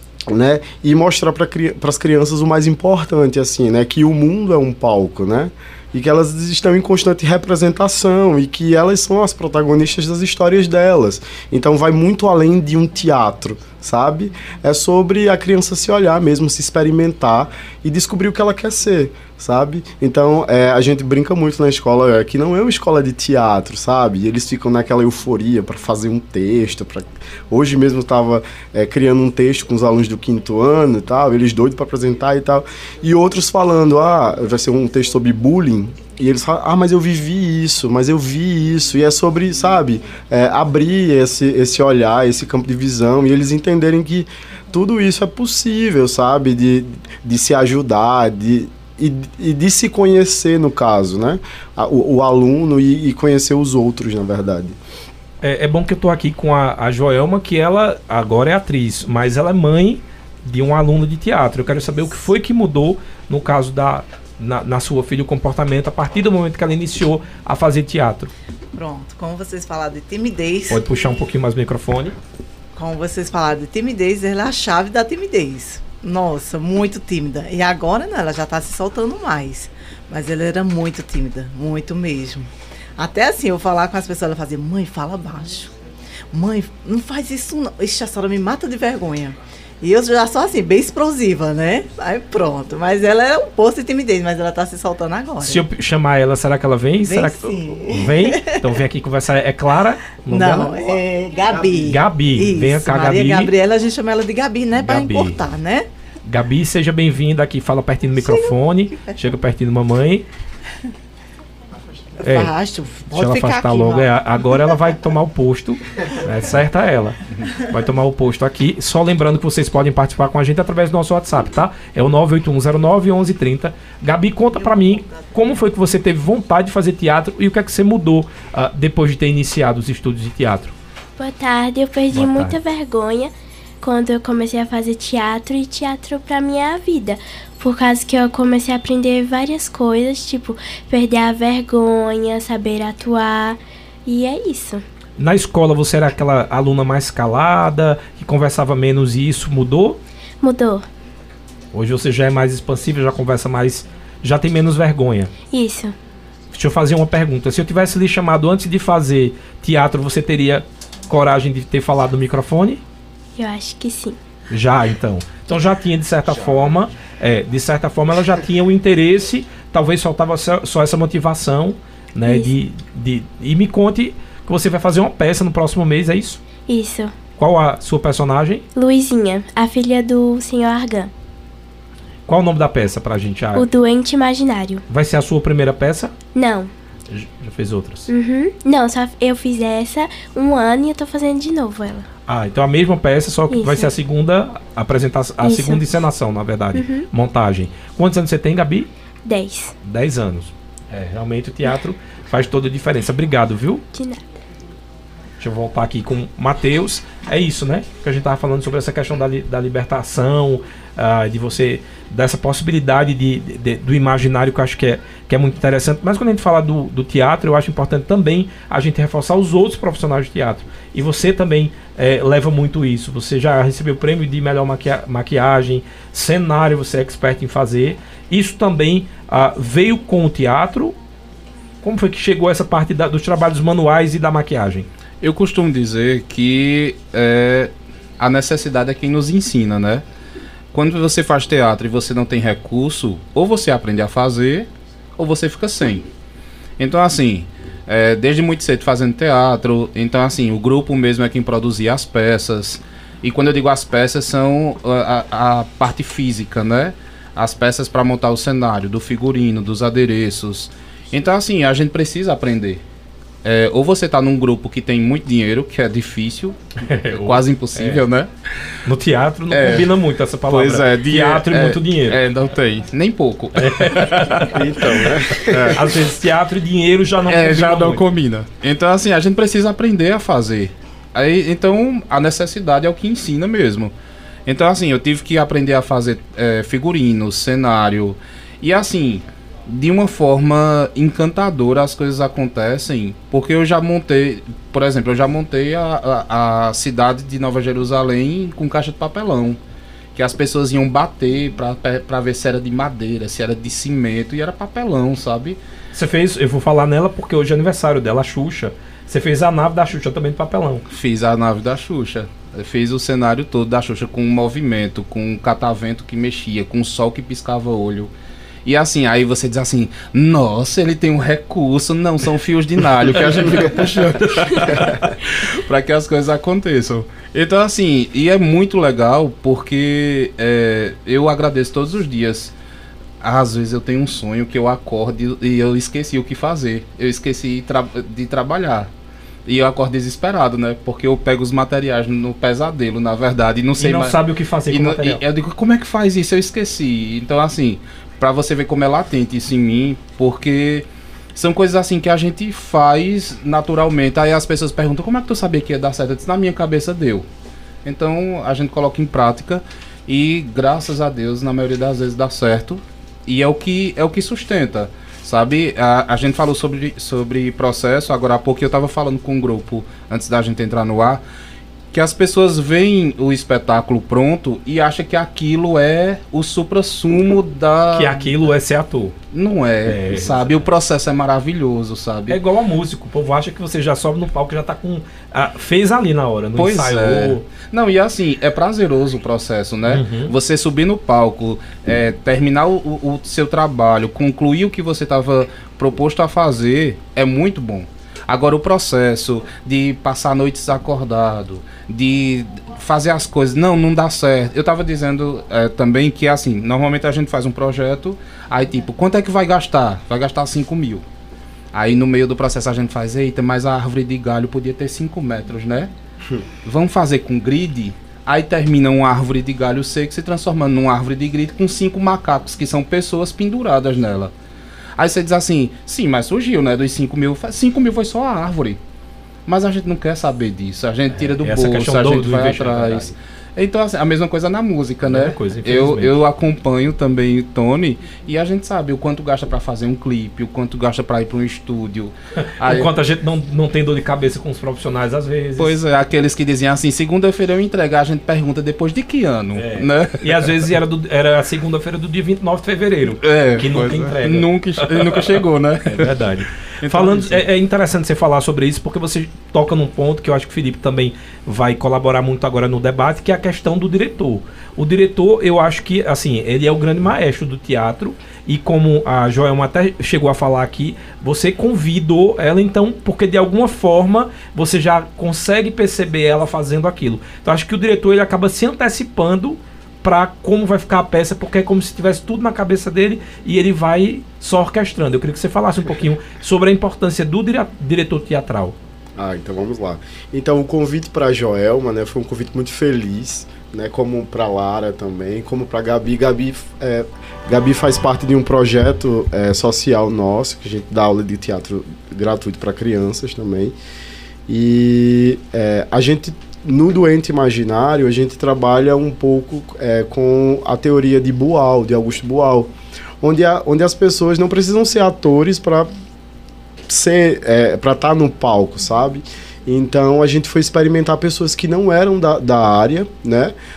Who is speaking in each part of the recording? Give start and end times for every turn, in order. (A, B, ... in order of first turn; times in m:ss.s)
0:00.3-0:54.8 A
0:55.4-1:08.3 B
1:08.8-1:10.8 C
1:10.7-1:12.2 B
1:12.8-1:22.5 C
1:23.0-1:25.7 C
1:26.3-1:35.6 C
1:35.4-1:40.8 B
1:37.1-1:38.4 C
1:40.3-1:45.8 C
1:41.8-1:43.5 B
1:44.8-1:45.4 B
1:46.3-1:50.3 B
1:52.2-1:52.5 B
1:52.3-1:54.1 C
1:53.1-2:10.7 B
2:11.2-2:24.8 D
2:12.1-2:12.6 B
2:25.2-2:30.0 B
2:30.4-2:30.9 D
2:31.7-2:35.3 B
2:35.5-2:36.0 D
2:36.5-2:42.8 B
2:43.4-2:44.2 D
2:44.5-2:56.4 B
2:52.3-2:52.5 D
2:56.7-2:57.1 D
2:57.4-2:58.6 B
2:58.8-3:01.1 D
3:02.3-3:03.7 B
3:03.6-3:04.8 D
3:04.9-3:06.1 B
3:06.4-3:06.7 D
3:07.1-3:08.1 B
3:08.1-3:12.1 D
3:12.3-3:18.9 B
3:13.5-3:13.9 D
3:15.4-3:15.8 D
3:16.7-3:17.1 D
3:19.3-3:19.7 D
3:19.8-3:23.8 B
3:23.9-3:24.2 D
3:25.4-3:51.0 B
3:51.8-3:54.9 B
3:55.2-4:00.0 E
4:00.7-4:06.1 E
4:06.8-4:22.8 E
4:23.4-4:26.6 E
4:26.8-4:28.0 B
4:27.2-4:28.3 E
4:28.9-4:32.2 B
4:29.5-4:30.0 E
4:30.5-4:34.6 E
4:33.6-4:34.6 B
4:34.5-4:35.8 A
4:35.4-4:35.8 E
4:35.7-4:38.0 B
4:37.3-4:43.9 E
4:44.5-4:59.6 E
5:00.2-5:05.6 E
5:05.9-5:10.9 B
5:10.9-5:18.1 E
5:18.6-5:32.5 E
5:24.3-5:25.0 B
5:33.2-5:38.9 E
5:39.5-5:44.2 E
5:43.8-5:45.2 B
5:44.7-5:57.3 E
5:57.8-6:11.2 E
6:11.9-6:18.5 E
6:17.9-6:19.2 B
6:19.3-6:22.4 E
6:19.9-6:20.6 B
6:22.3-6:27.4 B
6:26.6-6:51.0 E
6:29.9-6:30.3 B
6:51.7-6:55.9 E
6:56.6-7:04.3 E
7:05.0-7:08.8 E
7:09.5-7:22.9 E
7:11.4-7:13.1 B
7:15.1-7:16.2 B
7:22.5-7:25.8 B
7:25.6-7:30.6 E
7:29.6-7:35.3 B
7:33.2-7:36.1 E
7:35.8-8:08.8 B
7:36.8-7:37.4 E
8:09.2-8:23.8 A
8:24.5-8:32.7 A
8:33.2-8:35.9 A
8:36.9-8:43.5 A